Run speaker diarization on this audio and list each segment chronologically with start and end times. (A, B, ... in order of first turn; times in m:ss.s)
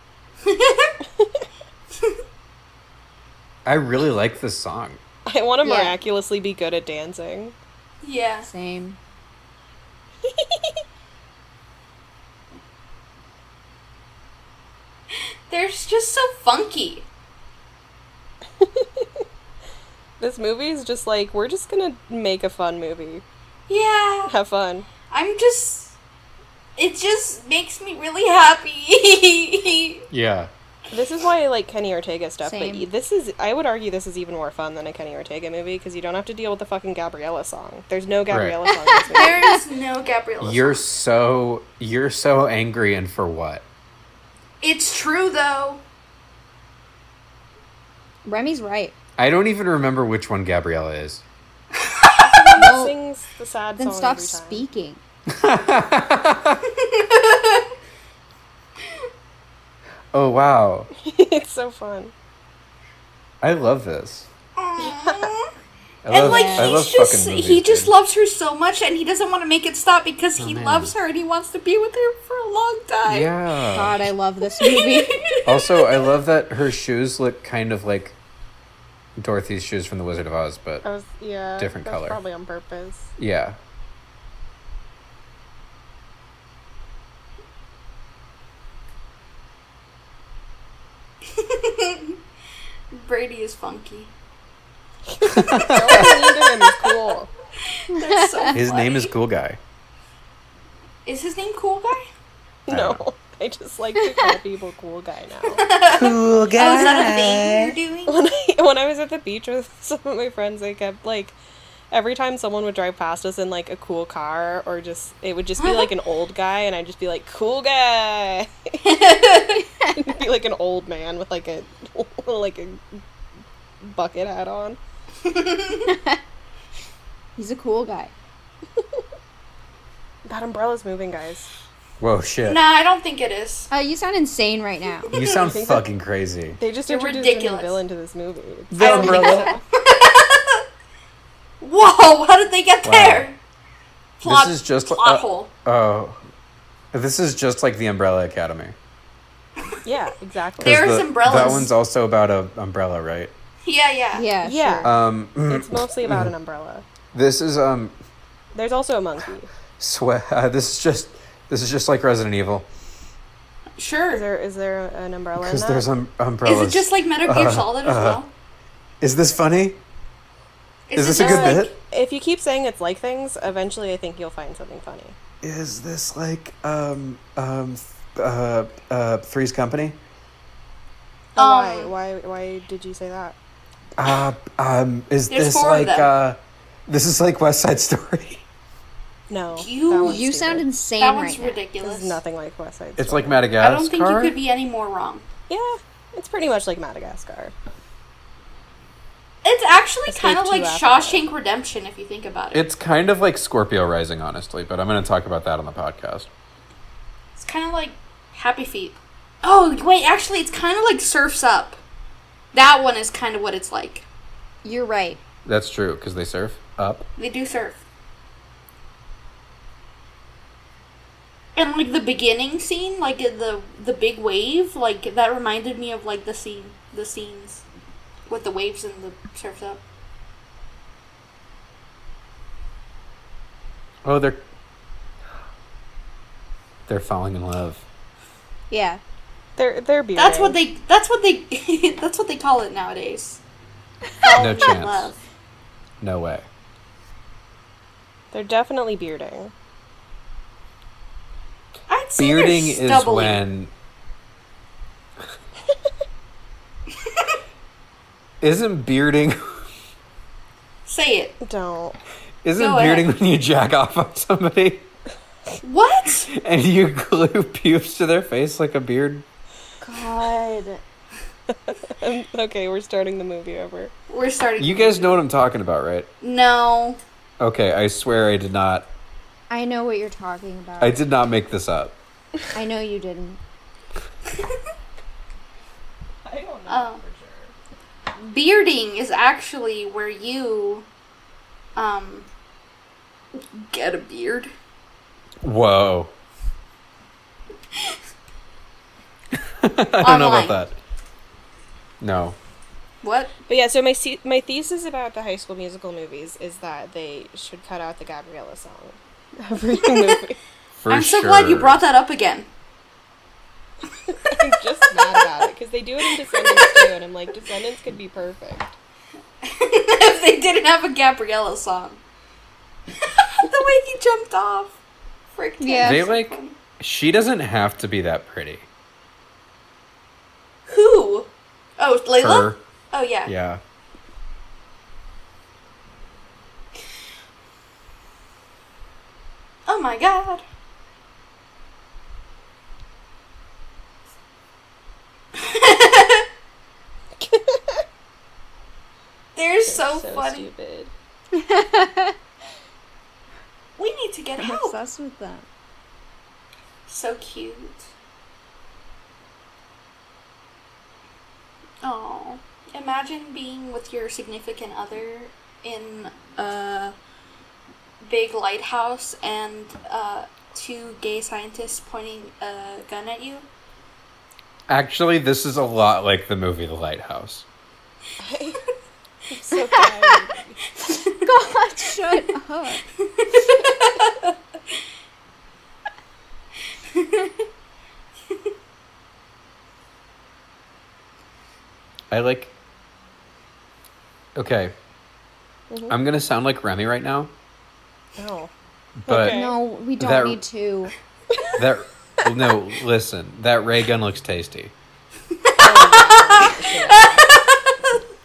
0:00.4-0:00.9 A
0:01.2-0:01.5 B
0:03.6-0:05.0 C
0:05.3-0:07.6 B
0:05.6-0:06.0 D
0:08.0-0:08.5 A
0:08.4-0:09.0 D
0:10.2-0:10.8 B
0:15.5-0:17.1 A
0:18.6-0:19.2 B
0:20.2-0:23.2 B
0:23.7-0:24.3 A
0:24.3-0:24.9 B
0:25.1-0:26.0 A
0:26.8-0:30.1 A
0:30.1-0:30.5 C
0:30.9-0:39.4 B
0:32.4-0:32.9 D
0:38.3-0:38.6 C
0:38.7-0:39.6 D
0:39.1-0:40.8 A
0:40.4-0:43.7 C
0:44.6-0:45.8 A
0:48.2-0:48.9 D
0:49.2-0:51.2 C
0:51.8-0:52.4 A
0:52.2-0:54.6 B
0:52.6-0:53.0 D
0:53.8-0:55.0 D
0:55.3-0:56.6 C
0:56.8-0:57.7 A
1:00.1-1:00.9 C
1:01.0-1:02.1 B
1:03.4-1:04.3 C
1:04.6-1:05.5 A
1:04.8-1:05.3 B
1:06.0-1:07.9 C
1:06.1-1:13.3 A
1:06.1-1:06.8 D
1:10.4-1:10.9 C
1:13.1-1:14.0 C
1:13.7-1:15.2 D
1:14.6-1:16.1 A
1:15.4-1:18.2 C
1:19.2-1:20.8 C
1:20.8-1:23.1 B
1:21.6-1:22.2 C
1:23.2-1:23.6 C
1:31.3-1:32.2 A
1:32.9-1:34.1 A
1:35.1-1:37.3 B
1:35.2-1:36.3 C
1:37.7-1:39.1 A
1:37.9-1:38.5 D
1:38.5-1:39.6 C
1:41.0-1:42.0 A
1:42.7-1:45.6 B
1:42.7-1:43.0 C
1:45.5-1:48.2 A
1:45.9-1:47.8 C
1:48.1-1:51.4 B
1:51.9-1:59.2 B
1:55.6-1:55.9 A
1:58.8-1:59.6 A
1:59.6-2:00.0 D
1:59.9-2:03.0 B
2:03.8-2:04.8 B
2:05.2-2:05.9 A
2:05.9-2:06.2 D
2:07.4-2:08.1 D
2:10.3-2:11.5 B
2:12.0-2:12.6 C
2:12.4-2:13.7 A
2:13.7-2:15.1 D
2:15.1-2:15.6 A
2:15.1-2:16.6 C
2:15.4-2:15.8 B
2:16.6-2:19.6 B
2:16.9-2:17.8 A
2:18.7-2:19.6 C
2:18.8-2:20.6 A
2:21.6-2:23.4 A
2:22.8-2:23.3 C
2:24.2-2:25.5 A
2:24.2-2:26.2 C
2:26.9-2:28.8 C
2:29.8-2:30.9 B
2:30.6-2:33.3 C
2:30.6-2:31.7 A
2:33.6-2:34.3 A
2:34.1-2:34.9 D
2:34.4-2:34.9 B
2:34.8-2:36.3 C
2:35.5-2:36.9 B
2:37.1-2:37.9 C
2:38.6-2:39.5 B
2:39.8-2:42.7 C
2:43.8-2:44.2 A
2:44.1-2:45.8 B
2:45.4-2:48.2 C
2:46.4-2:48.3 A
2:49.0-2:49.8 C
2:50.9-2:51.8 A
2:51.0-2:51.7 C
2:51.2-2:55.2 B
2:55.4-3:00.0 C
3:01.4-3:03.4 B
3:01.4-3:01.9 A
3:04.0-3:08.4 C
3:05.3-3:06.1 A
3:09.3-3:10.7 B
3:09.6-3:10.2 A
3:10.0-3:11.6 D
3:11.0-3:12.2 A
3:11.8-3:13.4 B
3:13.0-3:14.3 C
3:13.6-3:15.3 A
3:15.5-3:17.5 B
3:19.4-3:22.7 A
3:20.1-3:21.3 B
3:22.5-3:26.3 C
3:27.4-3:31.8 A
3:32.5-3:34.1 A
3:34.6-3:35.2 D
3:35.4-3:37.1 C
3:37.2-3:37.8 A
3:41.6-3:47.6 A
3:48.3-3:49.8 A
3:54.0-3:54.4 C
3:56.9-3:57.8 C
3:58.7-3:59.0 D
3:59.6-4:00.6 B
4:00.2-4:03.4 A
4:04.2-4:05.2 A
4:04.4-4:05.1 C
4:06.0-4:06.5 C
4:08.3-4:09.5 B
4:11.9-4:13.4 A
4:12.2-4:13.7 C
4:17.0-4:17.3 A
4:18.4-4:19.6 C
4:20.9-4:21.4 A
4:21.4-4:22.0 B
4:22.4-4:24.9 C
4:22.6-4:23.1 A
4:25.6-4:26.3 A
4:26.3-4:29.3 C
4:29.8-4:30.8 D
4:31.5-4:33.9 B
4:34.1-4:35.2 A
4:34.6-4:36.1 C
4:36.2-4:37.0 A
4:37.4-4:38.9 C
4:39.5-4:41.0 D
4:40.8-4:42.0 C
4:42.5-4:43.4 D
4:46.2-4:47.6 B
4:46.7-4:47.0 A
4:48.2-4:50.9 A
4:51.8-4:52.3 A
4:53.4-4:54.5 A
4:55.4-4:56.1 C
4:59.6-5:00.8 C
5:00.0-5:00.6 A
5:02.0-5:02.4 C
5:03.0-5:03.4 A
5:03.5-5:10.4 B
5:10.8-5:11.8 C
5:10.9-5:12.5 A
5:14.1-5:18.7 B
5:16.4-5:16.9 A
5:19.4-5:22.0 A
5:23.0-5:24.8 A
5:25.4-5:26.5 A
5:25.6-5:26.1 D
5:25.8-5:28.7 C
5:30.7-5:33.3 A
5:32.2-5:32.6 C
5:33.3-5:33.6 C
5:39.7-5:40.4 A
5:45.4-5:46.2 A
5:47.2-5:47.8 B
5:49.4-5:50.5 A
5:49.7-5:50.9 B
5:51.3-5:52.2 D
5:53.8-5:54.8 A
5:54.4-5:55.5 D
5:56.9-5:57.9 A
6:01.8-6:06.9 A
6:08.0-6:13.4 A
6:14.7-6:17.5 C
6:18.2-6:18.6 B
6:19.3-6:20.6 B
6:20.9-6:21.2 A
6:21.2-6:22.8 D
6:23.2-6:24.3 A
6:26.9-6:27.3 A
6:32.1-6:32.5 C
6:34.4-6:34.7 C
6:35.7-6:36.0 B
6:35.9-6:37.3 C
6:38.2-6:38.5 B
6:39.0-6:39.4 C
6:39.1-6:39.6 B
6:39.3-6:40.9 D
6:40.0-6:40.4 C
6:41.6-6:44.7 C
6:45.4-6:48.0 A
6:45.6-6:47.3 B